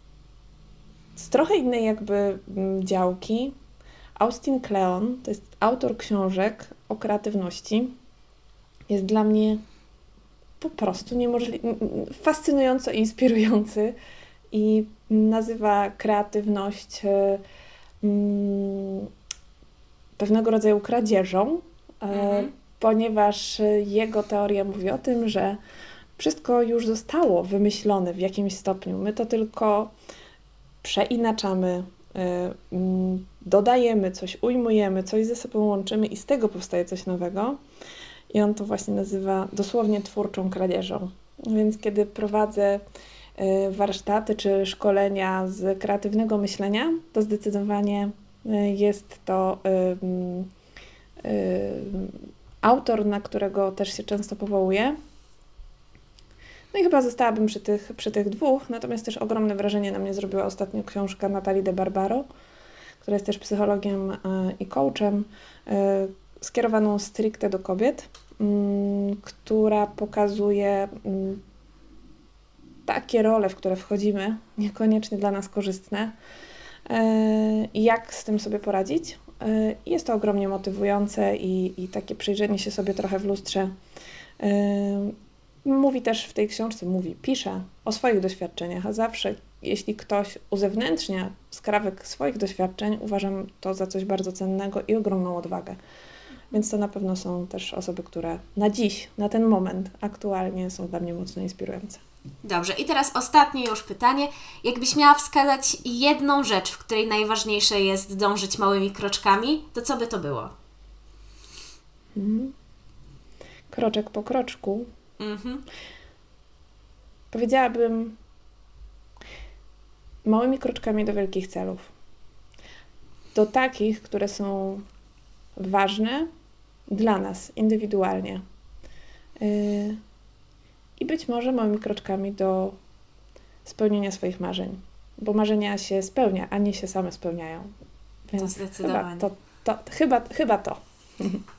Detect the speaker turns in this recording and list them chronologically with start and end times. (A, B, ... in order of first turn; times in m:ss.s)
0:01.2-0:03.6 A
0:04.2-0:08.0 A
0:08.9-0:09.6 A
0:10.6-0:14.0 A
0:14.5-0:17.4 A
0:18.0-0:19.1 A
0:20.2-0:25.6 A
0:22.1-0:22.5 B
0:26.2-0:29.9 A
0:30.8-0:37.6 A
0:38.3-0:42.8 A
0:43.4-0:50.5 A
0:51.2-0:55.0 A
0:56.7-1:02.2 A
1:03.0-1:11.4 A
1:12.9-1:16.1 A
1:16.9-1:23.7 A
1:24.4-1:35.8 A
1:36.5-1:42.0 A
1:42.4-1:50.5 B
1:52.2-1:52.5 A
1:53.7-1:54.9 A
1:55.2-1:55.6 B
1:57.3-1:58.2 A
2:00.3-2:01.9 A
2:03.3-2:04.8 A
2:05.6-2:06.3 A
2:06.9-2:08.4 A
2:09.4-2:10.0 A
2:11.0-2:12.8 A
2:13.6-2:17.7 A
2:18.3-2:21.4 A
2:18.4-2:19.3 B